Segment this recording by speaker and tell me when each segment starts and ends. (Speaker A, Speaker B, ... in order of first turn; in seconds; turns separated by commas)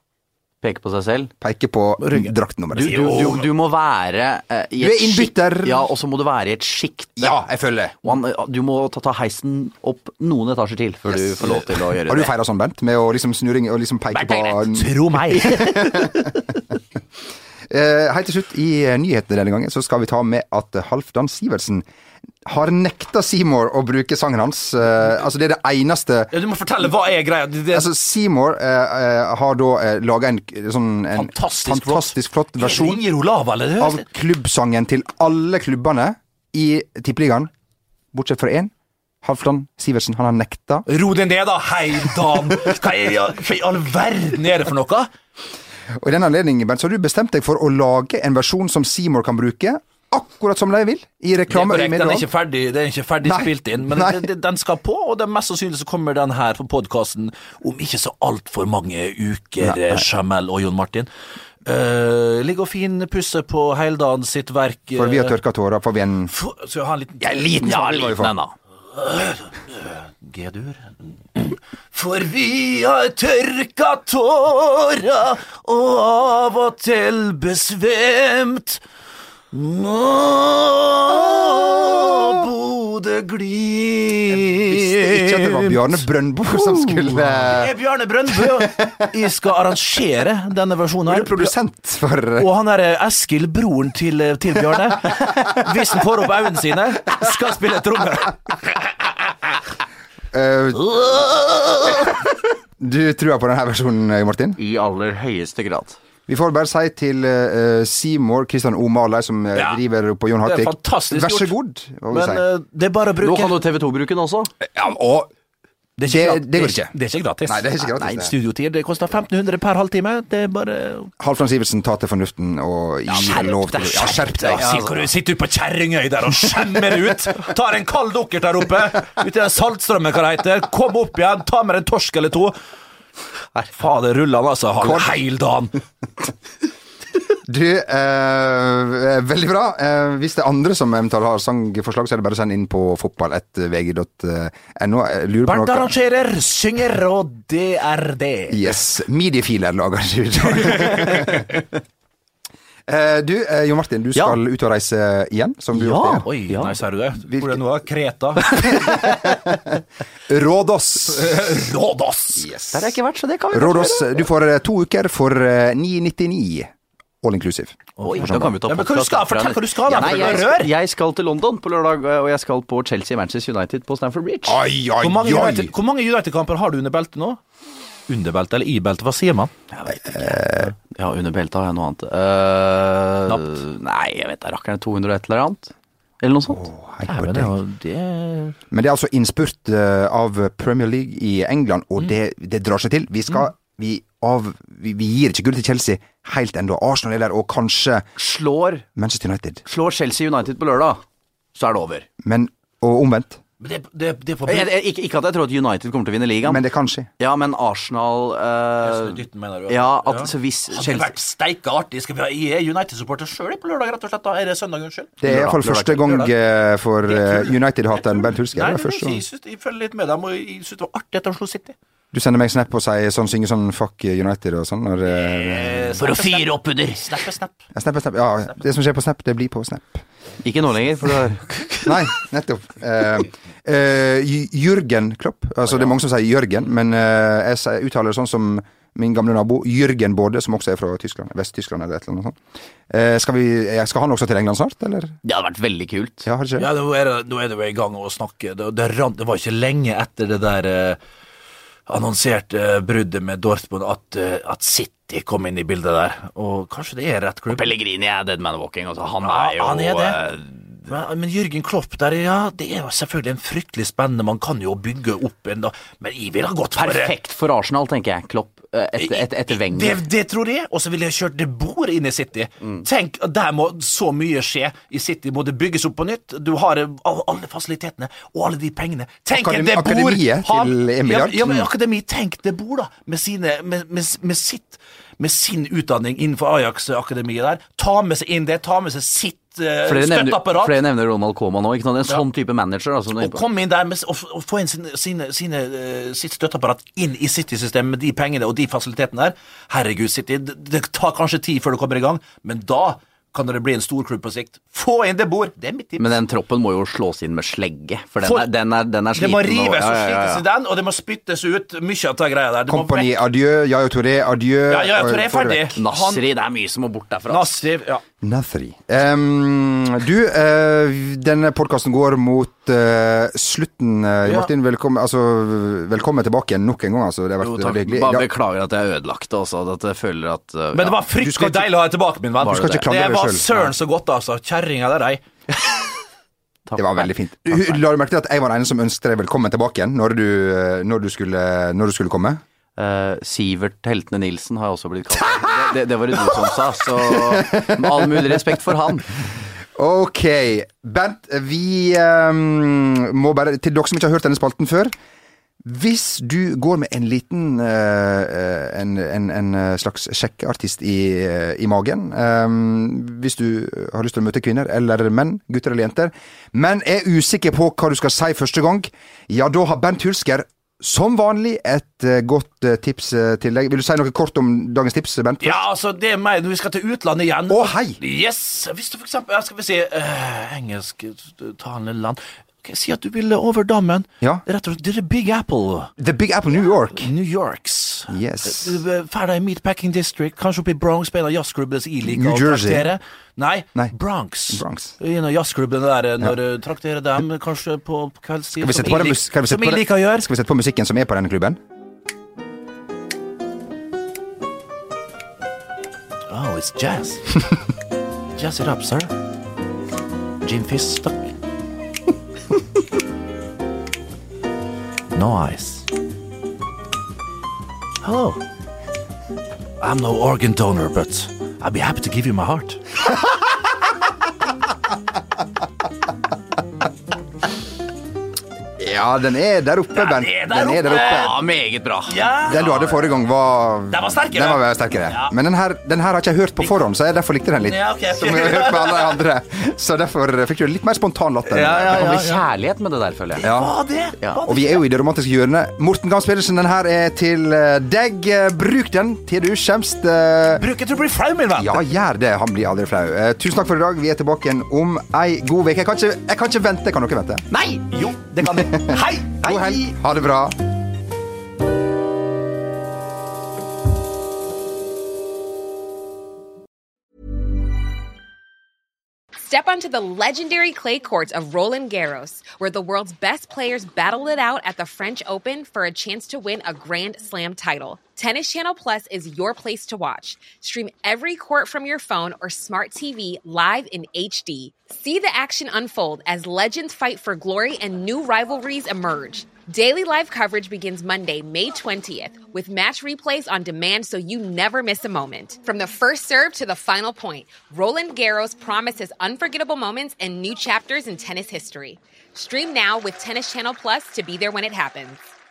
Speaker A: 0.6-1.3, Speaker B: 1.4-3.2, Speaker C: 2.0-3.5, Speaker A: 2.7-7.4, Speaker B: 4.8-5.8, Speaker B: 7.2-8.1, Speaker A: 8.0-12.3, Speaker B: 11.1-11.5, Speaker B: 12.1-16.4, Speaker C: 14.1-16.0, Speaker B: 17.7-21.8, Speaker B: 22.4-26.3, Speaker C: 26.3-27.9, Speaker B: 27.7-33.0, Speaker C: 31.1-34.0, Speaker B: 33.8-37.5, Speaker B: 38.1-38.7, Speaker B: 39.2-40.9, Speaker C: 40.9-45.1, Speaker B: 46.0-52.3, Speaker C: 51.5-61.1, Speaker B: 53.2-54.3, Speaker B: 59.6-60.0, Speaker C: 61.6-65.4, Speaker B: 64.9-66.3, Speaker C: 66.3-67.9, Speaker B: 67.2-68.3, Speaker A: 67.6-68.5, Speaker C: 68.9-78.8, Speaker C: 79.5-86.0, Speaker B: 84.5-87.7, Speaker C: 86.5-91.5, Speaker B: 88.3-89.0, Speaker B: 91.0-92.5, Speaker C: 92.4-98.8, Speaker B: 100.3-101.1, Speaker C: 100.8-102.0, Speaker B: 102.8-104.6, Speaker A: 104.6-106.0, Speaker B: 106.3-112.4, Speaker C: 109.5-109.8, Speaker C: 110.4-111.5, Speaker C: 112.1-113.6, Speaker A: 113.2-114.5, Speaker B: 114.6-115.3, Speaker C: 116.0-121.1, Speaker B: 116.1-116.9, Speaker B: 117.5-118.3, Speaker B: 121.2-124.9, Speaker C: 123.1-132.6, Speaker A: 124.5-125.0, Speaker C: 133.6-135.7, Speaker B: 134.8-135.2, Speaker B: 137.5-145.9, Speaker C: 145.4-148.8, Speaker B: 148.5-151.5, Speaker C: 150.6-151.3, Speaker B: 152.9-156.2, Speaker C: 155.7-158.5, Speaker A: 156.5-156.7, Speaker B: 158.5-159.6, Speaker B: 160.3-161.3, Speaker C: 161.1-162.4, Speaker B: 162.4-163.0, Speaker A: 162.7-164.2, Speaker B: 163.5-168.6, Speaker C: 168.0-170.7, Speaker A: 168.1-174.6, Speaker B: 174.4-175.7, Speaker C: 175.0-177.4, Speaker C: 178.1-179.5, Speaker A: 179.7-186.6, Speaker B: 180.0-180.7, Speaker C: 183.3-183.5, Speaker B: 186.5-187.5, Speaker C: 187.1-188.6, Speaker B: 188.7-198.1, Speaker A: 198.2-198.9, Speaker B: 198.9-199.6, Speaker A: 199.7-201.0, Speaker A: 201.5-202.1, Speaker B: 202.2-203.4, Speaker C: 203.6-204.7, Speaker A: 204.5-206.6, Speaker B: 206.4-207.1, Speaker A: 207.2-211.1, Speaker C: 208.8-216.3, Speaker B: 215.2-219.2, Speaker A: 215.2-216.0, Speaker C: 217.0-221.8, Speaker B: 222.1-225.8, Speaker C: 225.1-227.6, Speaker A: 226.0-227.1, Speaker B: 227.7-230.0, Speaker A: 230.4-231.9, Speaker B: 231.8-242.4, Speaker B: 242.9-245.2, Speaker A: 245.2-246.2, Speaker B: 246.2-246.7, Speaker C: 246.6-251.0, Speaker C: 251.9-257.7, Speaker A: 257.5-260.5, Speaker C: 259.2-260.2, Speaker C: 260.9-267.1, Speaker A: 266.8-270.0, Speaker C: 269.0-290.8, Speaker B: 279.3-281.7, Speaker A: 289.8-293.4, Speaker C: 293.1-306.2, Speaker A: 306.0-310.4, Speaker C: 308.2-308.5, Speaker C: 309.1-313.2, Speaker B: 312.7-315.6, Speaker C: 314.7-316.2, Speaker A: 315.8-317.6, Speaker C: 317.3-318.0, Speaker B: 318.2-328.3, Speaker C: 324.2-324.5, Speaker A: 327.4-331.0, Speaker C: 330.7-335.2, Speaker B: 331.2-331.7, Speaker A: 332.4-332.8, Speaker B: 332.6-333.5, Speaker A: 336.7-337.7, Speaker B: 336.8-342.4, Speaker A: 342.8-349.1, Speaker B: 347.2-348.5, Speaker B: 349.8-354.9, Speaker B: 355.6-375.6, Speaker C: 375.4-385.9, Speaker B: 377.5-378.0, Speaker B: 386.0-387.1, Speaker C: 387.0-400.3, Speaker B: 388.1-388.8, Speaker B: 392.0-392.9, Speaker B: 394.5-394.9, Speaker B: 398.6-401.6, Speaker C: 406.3-407.4, Speaker C: 408.4-409.1, Speaker C: 410.4-411.3, Speaker C: 415.1-415.9, Speaker C: 418.0-418.4, Speaker C: 419.8-422.8, Speaker B: 428.8-431.3, Speaker C: 429.9-431.4, Speaker A: 431.0-432.2, Speaker C: 432.1-433.1, Speaker B: 432.5-442.1, Speaker C: 433.9-435.3, Speaker C: 437.6-439.2, Speaker C: 441.5-442.4, Speaker A: 441.7-443.5, Speaker C: 443.3-444.8, Speaker B: 443.4-443.7, Speaker B: 444.4-450.6, Speaker C: 450.5-451.8, Speaker B: 451.6-457.4, Speaker A: 457.5-457.8, Speaker C: 457.9-460.0, Speaker B: 458.6-460.6, Speaker D: 469.4-505.2